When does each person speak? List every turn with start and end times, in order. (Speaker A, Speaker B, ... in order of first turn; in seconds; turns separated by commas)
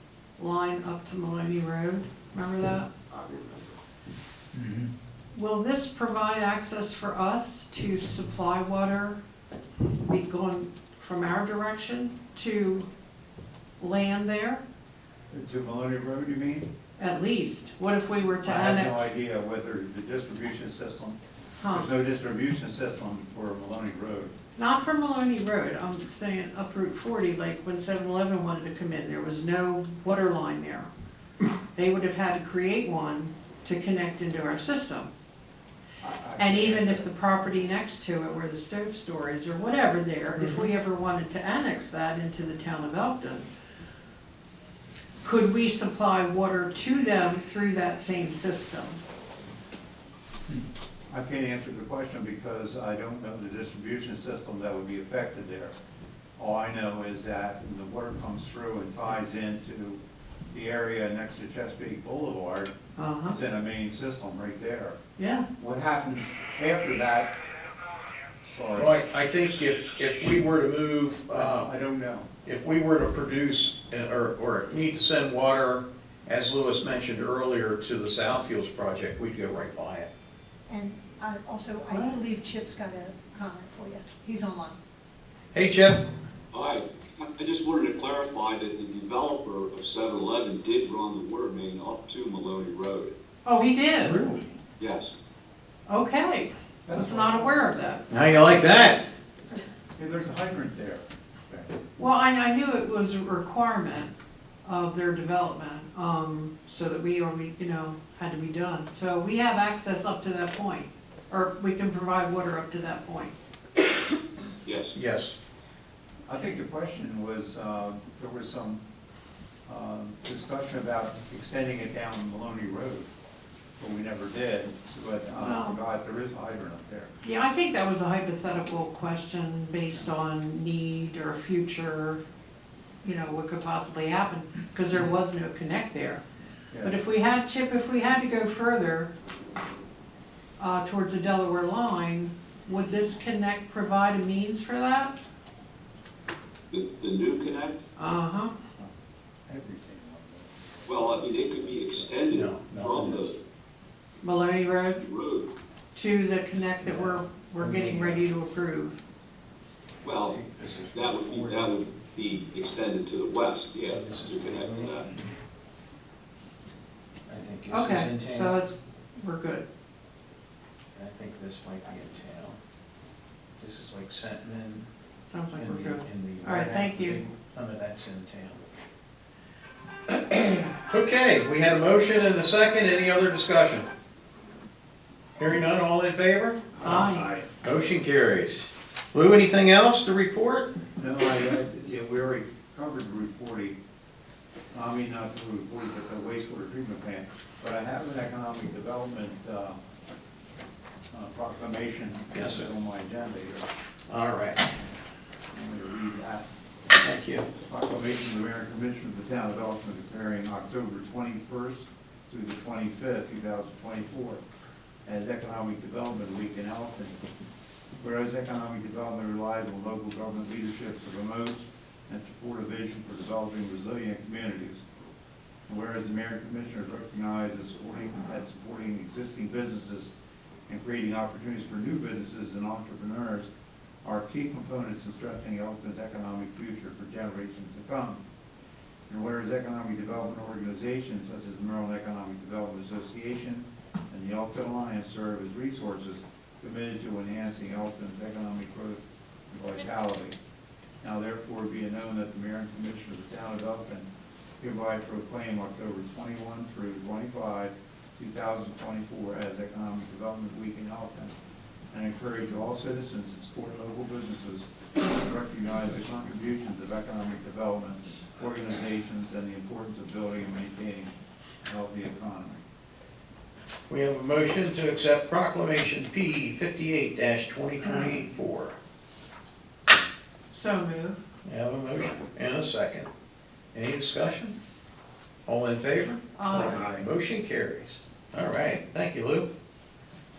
Speaker A: 0.4-2.9, Speaker B: 3.1-3.7, Speaker A: 5.3-9.2, Speaker A: 10.0-12.9, Speaker A: 13.8-14.6, Speaker B: 15.3-16.7, Speaker A: 17.0-19.1, Speaker B: 18.4-24.3, Speaker A: 21.6-21.9, Speaker A: 24.6-30.9, Speaker A: 31.7-35.1, Speaker B: 36.0-37.1, Speaker A: 36.4-43.5, Speaker B: 40.4-40.6, Speaker A: 45.2-49.0, Speaker B: 51.1-55.7, Speaker B: 56.4-60.0, Speaker B: 60.5-62.7, Speaker A: 63.0-63.4, Speaker B: 63.3-65.0, Speaker A: 65.2-65.5, Speaker B: 65.6-67.3, Speaker B: 68.5-68.9, Speaker C: 68.7-71.7, Speaker B: 71.3-72.3, Speaker C: 72.4-80.1, Speaker D: 80.7-84.8, Speaker C: 85.5-86.0, Speaker E: 86.5-93.2, Speaker A: 93.4-94.3, Speaker C: 94.0-94.4, Speaker E: 94.8-95.1, Speaker A: 95.9-98.0, Speaker B: 96.8-98.1, Speaker C: 98.1-99.0, Speaker B: 100.0-101.8, Speaker A: 102.0-104.1, Speaker A: 104.6-113.3, Speaker E: 114.6-114.9, Speaker C: 114.9-115.3, Speaker B: 116.3-118.8, Speaker B: 119.7-123.1, Speaker B: 123.8-127.1, Speaker A: 125.4-125.8, Speaker A: 127.2-132.2, Speaker A: 133.0-136.2, Speaker B: 136.7-137.0, Speaker A: 136.8-139.1, Speaker A: 140.6-145.2, Speaker E: 146.7-147.8, Speaker A: 148.0-148.5, Speaker B: 149.5-152.1, Speaker E: 150.9-153.4, Speaker C: 152.3-153.3, Speaker A: 154.2-155.0, Speaker E: 155.0-155.5, Speaker A: 155.9-159.0, Speaker C: 156.8-158.2, Speaker E: 160.0-160.4, Speaker C: 160.0-162.1, Speaker E: 160.9-165.1, Speaker C: 163.9-165.3, Speaker C: 167.3-168.6, Speaker A: 167.7-169.7, Speaker C: 170.9-172.6, Speaker C: 173.6-174.9, Speaker A: 175.3-177.2, Speaker C: 175.5-178.6, Speaker C: 180.1-183.9, Speaker C: 185.4-187.0, Speaker B: 186.8-187.4, Speaker A: 186.8-187.4, Speaker C: 187.6-190.7, Speaker B: 191.0-193.8, Speaker B: 194.7-199.8, Speaker B: 201.1-203.7, Speaker C: 202.3-202.7, Speaker C: 204.1-204.6, Speaker B: 205.5-206.5, Speaker C: 207.0-207.5, Speaker B: 207.6-214.4, Speaker B: 215.1-217.2, Speaker B: 218.0-224.8, Speaker B: 225.7-230.1, Speaker B: 230.7-233.5, Speaker B: 234.0-238.2, Speaker B: 239.1-250.4, Speaker B: 251.0-254.1, Speaker B: 254.6-261.3, Speaker B: 261.9-271.1, Speaker B: 271.6-272.6, Speaker C: 273.9-278.8, Speaker A: 280.5-281.2, Speaker C: 281.4-283.1, Speaker C: 283.7-284.6, Speaker C: 285.4-289.5, Speaker A: 286.3-286.9, Speaker B: 286.6-287.0